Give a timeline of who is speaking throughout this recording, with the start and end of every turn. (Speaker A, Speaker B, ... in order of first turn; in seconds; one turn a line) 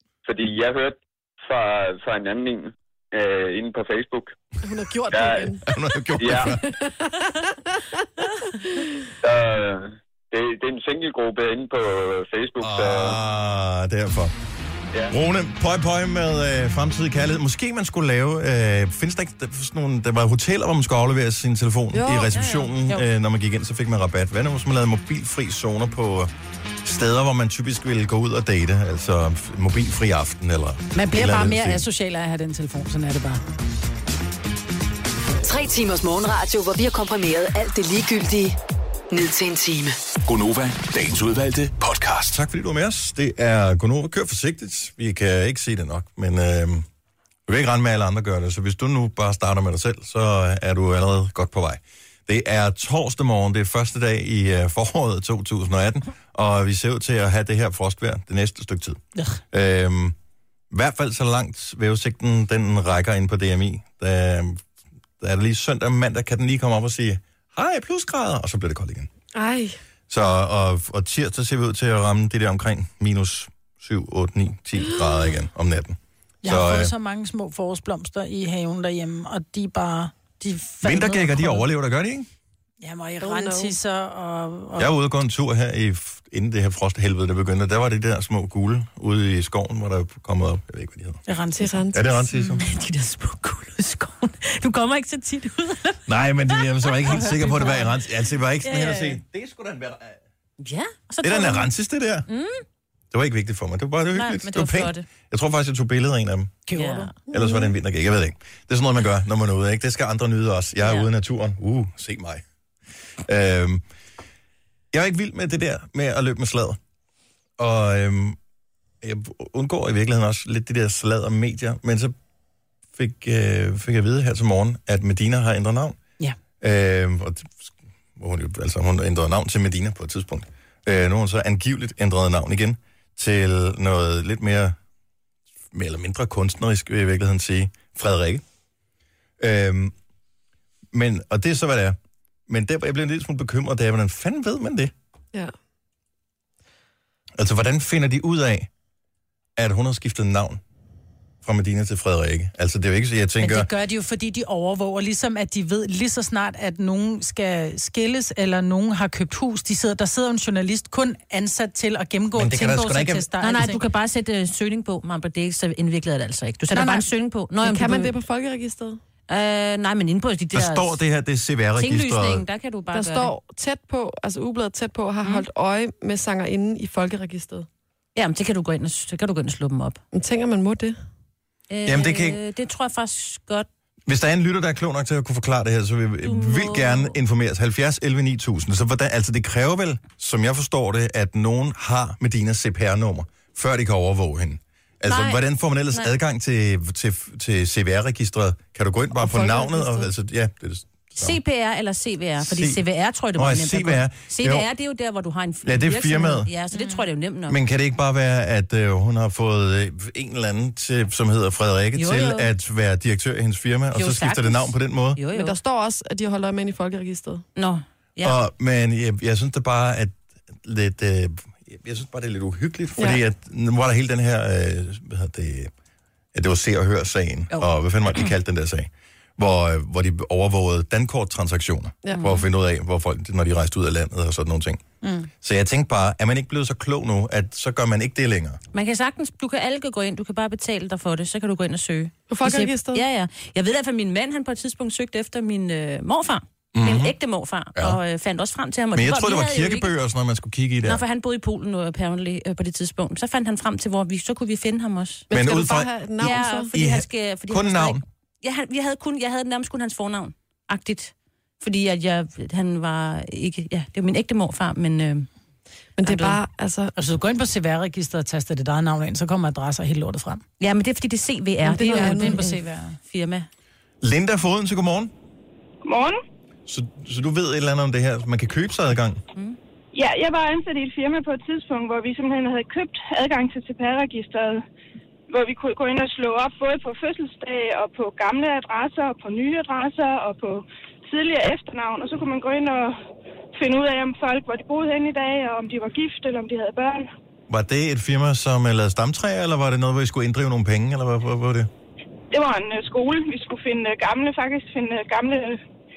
Speaker A: 0.2-4.4
Speaker B: 4.6-5.6
Speaker A: 5.1-5.5
Speaker C: 5.7-6.6
Speaker A: 6.2-6.6
Speaker B: 6.2-8.9
Speaker A: 9.2-13.2
Speaker C: 12.6-14.3
Speaker C: 15.1-26.3
Speaker B: 21.9-22.3
Speaker D: 22.3-22.9
Speaker C: 26.8-31.8
Speaker E: 30.9-33.4
Speaker F: 35.4-38.6
Speaker F: 39.1-40.0
Speaker G: 40.2-42.4
Speaker C: 42.3-46.9
Speaker C: 47.5-59.0
Speaker E: 59.2-59.4
Speaker C: 59.5-60.1
Speaker C: 60.7-64.6
Speaker C: 65.2-69.1
Speaker B: 69.3-69.8
Speaker C: 70.1-76.9
Speaker E: 76.4-81.7
Speaker C: 80.8-82.3
Speaker E: 82.8-84.9
Speaker B: 83.2-83.8
Speaker C: 84.8-91.2
Speaker E: 91.3-92.6
Speaker B: 91.6-92.1
Speaker C: 91.9-92.6
Speaker D: 92.6-97.9
Speaker C: 96.1-100.2
Speaker D: 98.6-99.2
Speaker D: 100.6-101.7
Speaker C: 101.2-102.3
Speaker D: 102.3-102.6
Speaker C: 103.1-106.6
Speaker D: 104.1-105.0
Speaker E: 106.7-107.1
Speaker D: 106.7-107.1
Speaker B: 107.3-107.7
Speaker C: 107.3-112.4
Speaker D: 110.8-111.1
Speaker C: 113.2-113.8
Speaker C: 114.9-116.8
Speaker C: 117.6-118.4
Speaker C: 119.0-122.1
Speaker C: 123.0-126.0
Speaker C: 126.6-134.8
Speaker C: 135.7-138.4
Speaker C: 139.4-139.9
Speaker C: 140.9-142.0
Speaker C: 142.5-144.9
Speaker C: 147.4-148.7
Speaker C: 149.6-150.6
Speaker C: 151.4-153.7
Speaker E: 153.4-163.8
Speaker C: 162.3-163.3
Speaker D: 163.4-168.1
Speaker E: 166.7-167.1
Speaker B: 167.6-169.0
Speaker D: 169.3-170.9
Speaker C: 170.5-172.4
Speaker D: 171.8-173.3
Speaker B: 172.9-177.7
Speaker D: 178.2-180.0
Speaker B: 180.1-180.9
Speaker D: 181.7-183.7
Speaker C: 181.9-182.4
Speaker C: 184.1-201.4
Speaker D: 186.2-187.2
Speaker D: 195.1-195.4
Speaker B: 199.2-200.1
Speaker D: 201.2-207.6
Speaker C: 202.4-202.8
Speaker C: 203.3-204.7
Speaker C: 205.6-206.5
Speaker E: 206.7-207.0
Speaker C: 207.5-215.2
Speaker D: 211.9-212.5
Speaker D: 213.9-215.6
Speaker B: 215.3-217.4
Speaker D: 217.6-218.4
Speaker C: 218.2-225.7
Speaker C: 226.3-234.8
Speaker D: 232.1-232.4
Speaker E: 235.0-235.3
Speaker C: 235.4-238.6
Speaker D: 238.7-249.9
Speaker B: 242.3-243.0
Speaker C: 246.7-247.1
Speaker C: 248.9-251.0
Speaker D: 250.8-255.3
Speaker B: 255.3-256.7
Speaker C: 255.3-258.0
Speaker D: 256.2-265.3
Speaker B: 266.0-266.9
Speaker D: 266.0-266.4
Speaker E: 266.9-270.4
Speaker D: 270.6-273.5
Speaker B: 271.6-272.5
Speaker E: 271.9-273.0
Speaker C: 274.0-275.1
Speaker H: 275.8-276.2
Speaker C: 276.7-279.2
Speaker H: 279.9-284.6
Speaker H: 285.3-293.0
Speaker H: 293.6-297.1
Speaker C: 297.5-301.7
Speaker H: 302.3-305.6